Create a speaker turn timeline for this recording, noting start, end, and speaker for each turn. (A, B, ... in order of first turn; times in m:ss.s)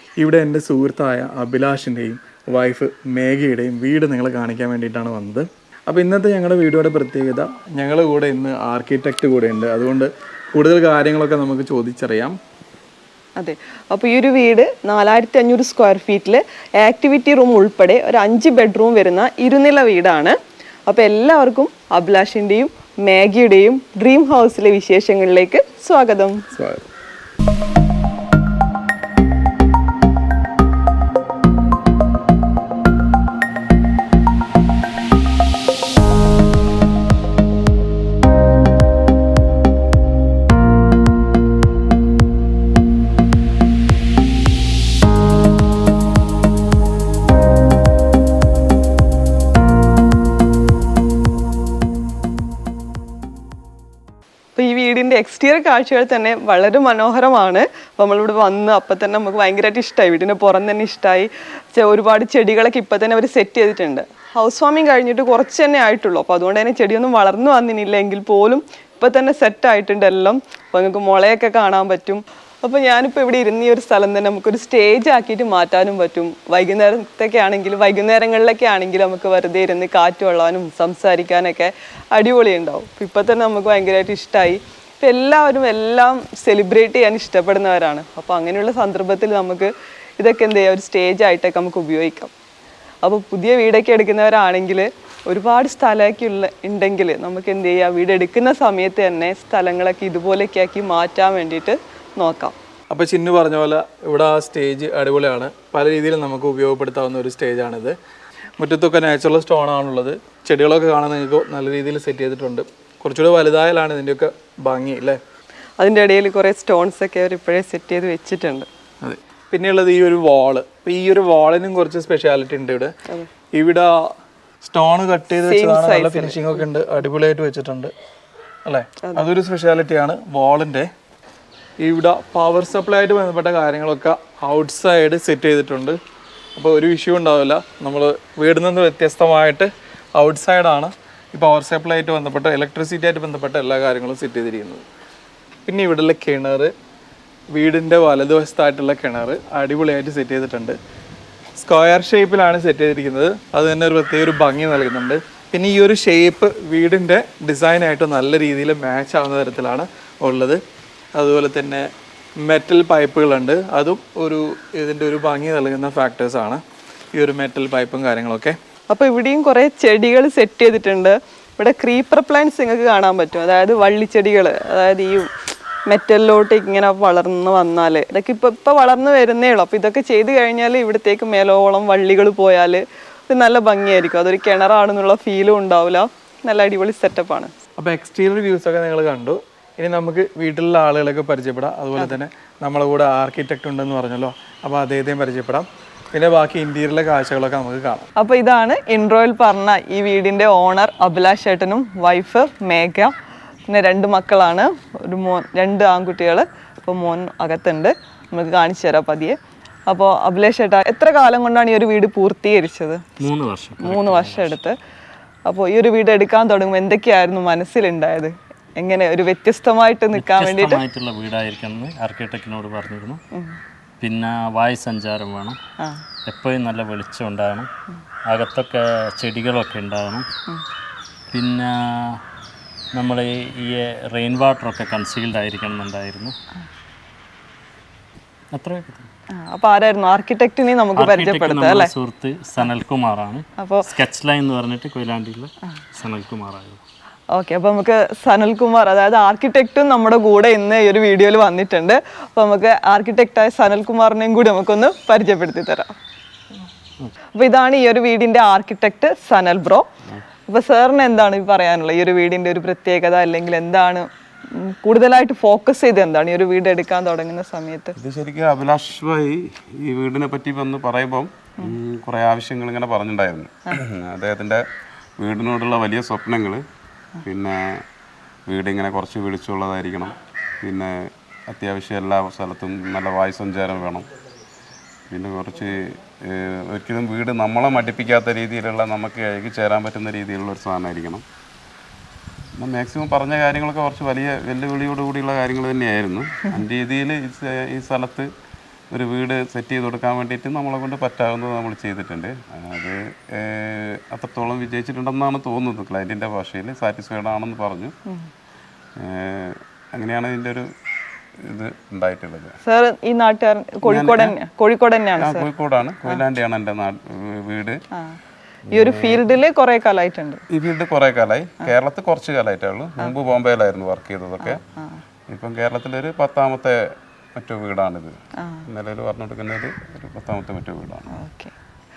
0:00.2-0:12.4 A
0:13.4-0:20.4 B
0:20.9-0:26.5 B
0:54.6-1:32.3 B
1:33.0-1:42.6 B
1:42.9-1:48.0 A
1:48.6-1:55.2 A
1:55.8-1:58.7 B
1:59.0-2:02.9 A
2:03.6-2:04.0 A
2:04.6-2:07.9 A
2:05.4-2:06.6 B
2:08.7-2:10.9 A
2:11.8-2:16.0 A
2:16.6-2:24.8 A
2:25.7-2:26.7 A
2:27.5-2:30.8 A
2:31.6-2:40.6 A
2:41.2-2:41.9 A
2:42.4-2:46.6 A
2:47.2-2:48.6 A
2:48.9-2:55.3 B
2:55.9-3:07.5 B
3:07.8-3:18.1 A
3:18.2-3:23.1 B
3:23.7-3:29.4 B
3:29.9-3:33.0 B
3:33.2-3:34.6 C
3:33.8-3:34.8 B
3:35.5-3:40.8 B
3:40.1-3:43.2 C
3:44.0-3:45.6 C
3:46.3-3:47.7 C
3:48.3-3:50.3 C
3:51.3-3:52.2 C
3:52.9-3:56.4 C
3:58.5-3:59.1 C
3:59.3-4:01.9 B
4:00.9-4:06.8 C
4:03.6-4:03.9 B
4:07.3-4:16.0 B
4:17.4-4:19.9 B
4:20.5-4:28.0 B
4:28.0-4:34.6 D
4:35.2-4:36.6 D
4:37.2-4:37.8 D
4:38.5-4:44.1 D
4:45.1-4:51.2 D
4:52.6-4:58.3 D
4:58.9-5:07.9 D
5:09.0-5:10.7 D
5:11.5-5:12.6 D
5:12.6-5:15.5 B
5:13.8-5:14.3 D
5:15.2-5:17.8 D
5:18.7-5:20.4 B
5:18.7-5:19.2 D
5:20.5-5:24.6 D
5:24.4-5:25.0 B
5:25.3-5:26.8 D
5:27.4-5:28.1 D
5:28.4-5:28.7 B
5:28.7-5:31.1 D
5:31.1-5:31.5 B